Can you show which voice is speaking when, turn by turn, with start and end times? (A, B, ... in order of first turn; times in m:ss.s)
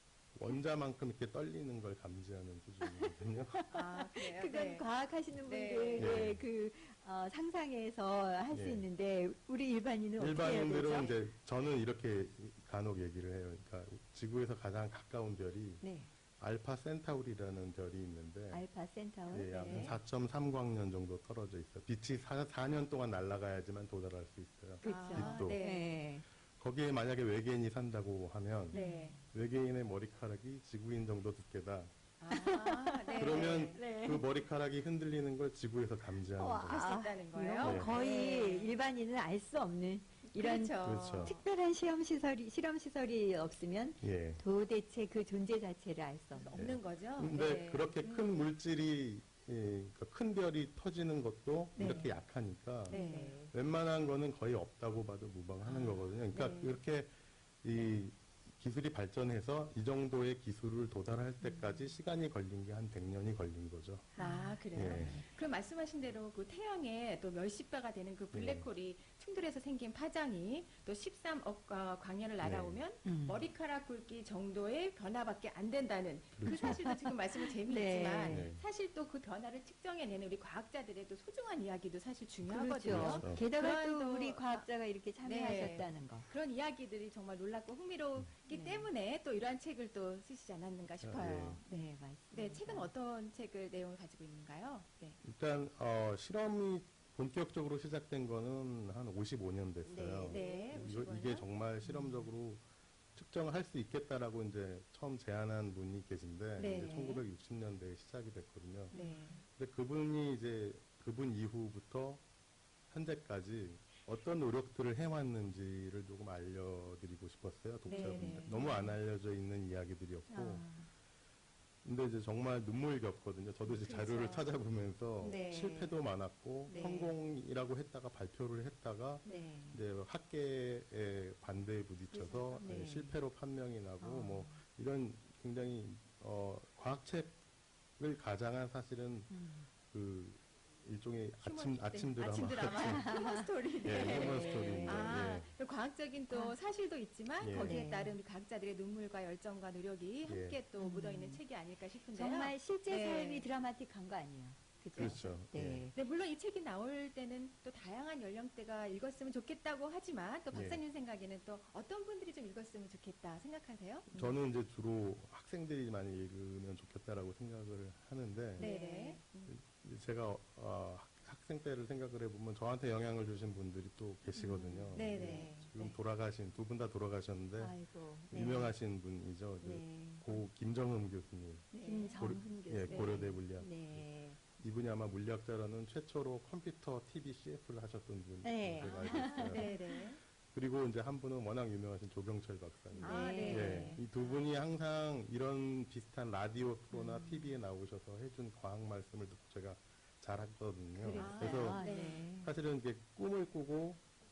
0:00.4-0:03.6 A
0:02.8-0:11.1 B
0:03.7-0:04.8 C
0:05.4-0:06.2 C
0:06.0-0:06.4 A
0:08.5-0:08.9 A
0:10.2-0:15.8 A
0:15.8-0:16.1 B
0:16.4-0:18.6 A
0:18.5-0:20.0 B
0:19.3-0:20.0 C
0:19.3-0:25.6 A
0:24.8-0:26.3 B
0:24.8-0:25.9 C
0:26.6-0:31.9 A
0:28.7-0:29.2 C
0:28.7-0:29.3 B
0:32.2-0:33.9 C
0:32.3-0:34.2 B
0:33.2-0:36.8 A
0:36.3-0:46.6 B
0:36.6-0:38.8 C
0:37.6-0:38.0 A
0:40.3-0:41.4 C
0:40.8-0:41.4 A
0:44.0-0:44.4 A
0:46.3-0:48.5 C
0:46.5-1:04.1 A
0:51.8-0:52.1 B
0:51.8-0:52.1 C
0:52.9-0:53.5 C
0:52.9-0:53.5 B
0:55.6-0:56.0 B
0:56.3-0:56.8 C
1:01.4-1:01.9 B
1:04.2-1:24.7 C
1:04.2-1:05.2 B
1:04.7-1:05.2 A
1:08.3-1:08.7 A
1:12.4-1:12.8 A
1:13.0-1:13.4 B
1:16.4-1:16.8 A
1:16.5-1:18.5 B
1:18.3-1:18.6 A
1:22.4-1:26.3 B
1:22.9-1:23.4 A
1:25.2-1:35.2 C
1:28.5-1:28.9 B
1:31.0-1:31.6 A
1:31.7-1:32.9 B
1:35.2-1:42.6 A
1:39.8-1:40.7 B
1:40.3-1:41.5 C
1:41.8-1:42.3 B
1:43.2-1:49.0 A
1:46.6-1:47.2 C
1:46.6-1:47.2 B
1:48.9-1:49.4 B
1:48.9-1:49.4 C
1:49.5-1:52.2 A
1:52.9-2:00.7 A
1:57.9-1:58.7 C
1:57.9-1:59.0 B
2:00.3-2:00.9 B
2:01.8-2:17.4 A
2:03.8-2:04.5 C
2:05.2-2:06.0 B
2:05.2-2:05.6 C
2:06.7-2:07.1 B
2:09.3-2:09.8 B
2:12.1-2:12.7 C
2:12.6-2:13.2 B
2:14.0-2:14.6 B
2:18.0-2:19.4 A
2:19.3-2:19.7 B
2:19.9-2:23.1 A
2:21.4-2:33.5 C
2:22.8-2:25.2 B
2:23.8-2:25.5 A
2:27.4-2:27.8 A
2:27.6-2:28.2 B
2:30.2-2:30.6 A
2:30.8-2:31.4 B
2:32.1-2:36.0 B
2:35.0-2:35.9 A
2:36.0-2:44.4 C
2:40.5-2:40.8 A
2:44.1-2:48.7 A
2:48.6-2:49.2 B
2:48.6-2:49.6 C
2:49.5-3:09.7 A
2:54.3-2:56.0 B
2:54.9-2:55.5 C
2:57.6-2:58.8 B
2:59.6-3:00.4 B
3:01.7-3:02.2 C
3:01.7-3:04.4 B
3:02.9-3:03.2 C
3:08.4-3:10.0 B
3:08.8-3:10.2 C
3:10.5-3:24.0 A
3:12.9-3:14.1 B
3:13.0-3:14.4 C
3:16.9-3:17.6 B
3:21.0-3:22.5 B
3:21.2-3:22.3 C